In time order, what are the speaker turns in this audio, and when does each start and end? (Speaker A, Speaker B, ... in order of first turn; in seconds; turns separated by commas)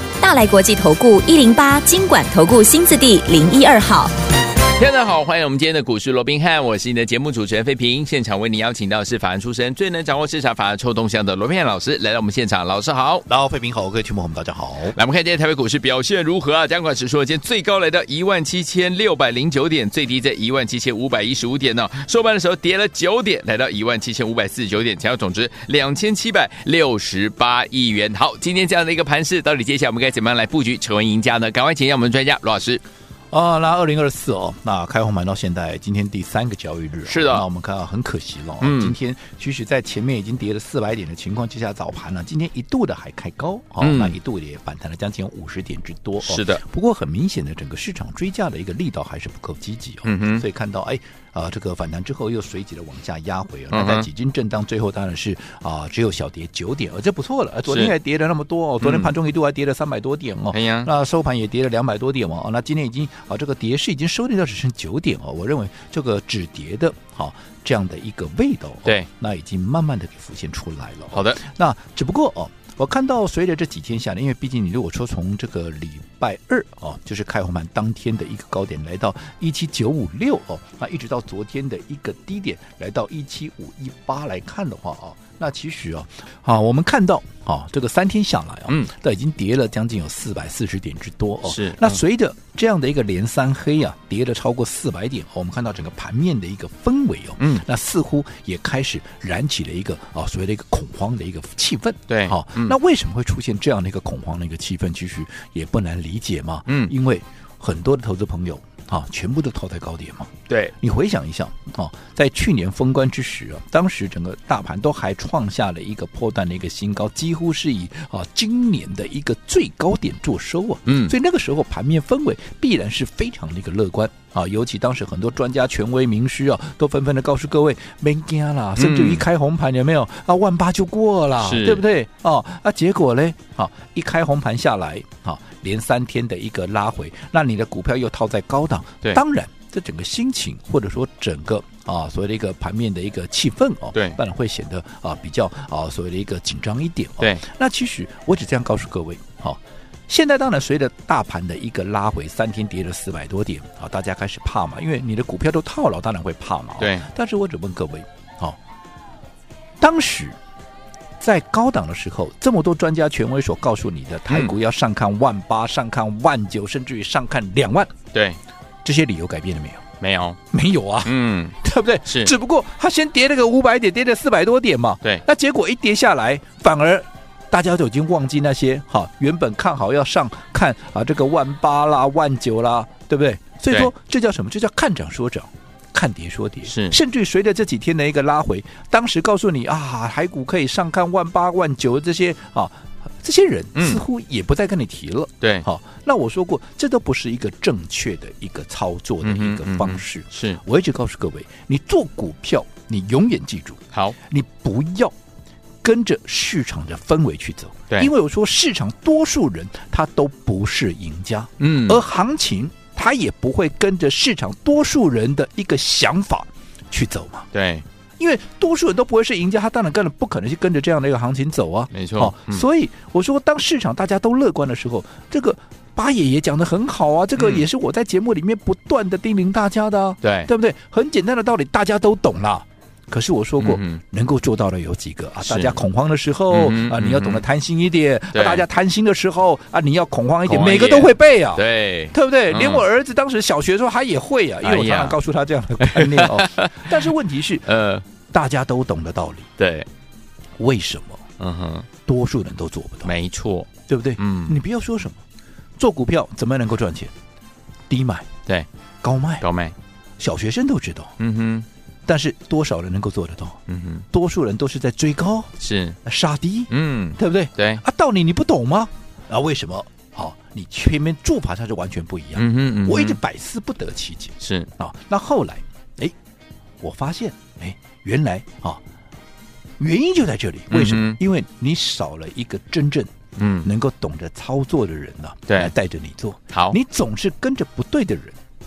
Speaker A: 0.2-4.1, Speaker B: 4.7-13.2, Speaker C: 13.3-14.9, Speaker B: 14.9-32.8, Speaker C: 33.3-158.6, Speaker B: 37.1-37.5, Speaker B: 38.6-38.9, Speaker B: 43.8-44.2, Speaker B: 46.2-46.6, Speaker B: 50.0-50.4, Speaker B: 53.7-54.1, Speaker B: 57.7-57.9, Speaker B: 58.8-59.1, Speaker B: 60.5-60.9, Speaker B: 71.1-71.4, Speaker B: 91.5-92.0, Speaker B: 97.4-97.6, Speaker B: 102.1-102.8, Speaker B: 106.7-106.9, Speaker B: 110.5-110.7, Speaker B: 120.9-121.1, Speaker B: 128.8-129.2, Speaker B: 131.4-131.8, Speaker B: 156.8-157.1, Speaker C: 159.8-160.4, Speaker C: 161.2-168.0, Speaker B: 164.3-164.5, Speaker B: 168.1-168.4, Speaker C: 168.8-169.8, Speaker B: 170.0-170.4, Speaker C: 170.5-205.1, Speaker B: 171.1-172.3, Speaker B: 186.7-187.0, Speaker B: 193.8-194.0, Speaker B: 199.2-200.6, Speaker C: 205.8-217.5, Speaker B: 211.6-212.0, Speaker B: 217.5-217.8, Speaker C: 218.2-247.7, Speaker B: 221.9-222.6, Speaker B: 227.4-227.7, Speaker B: 230.2-230.5, Speaker B: 233.6-234.0, Speaker B: 235.4-235.8, Speaker B: 236.5-237.4, Speaker B: 238.3-238.7, Speaker B: 240.5-242.8, Speaker B: 244.6-245.2, Speaker B: 245.8-246.9, Speaker B: 247.7-248.1, Speaker C: 248.3-249.5, Speaker B: 249.6-249.9, Speaker C: 250.6-251.2, Speaker B: 251.4-251.9, Speaker C: 252.1-253.1, Speaker B: 253.1-254.6, Speaker C: 253.9-255.2, Speaker C: 255.8-257.1, Speaker C: 257.9-258.3, Speaker C: 259.0-259.4, Speaker B: 259.4-259.8, Speaker C: 260.2-261.2, Speaker B: 261.2-261.7, Speaker C: 262.1-263.6, Speaker B: 263.7-264.1, Speaker C: 264.1-276.1, Speaker B: 265.6-266.0, Speaker B: 266.7-267.8, Speaker B: 272.4-273.2, Speaker B: 274.4-274.7, Speaker C: 276.8-278.8, Speaker C: 279.8-283.1, Speaker B: 280.7-281.2, Speaker B: 283.4-283.7, Speaker C: 283.6-288.4, Speaker B: 286.5-286.8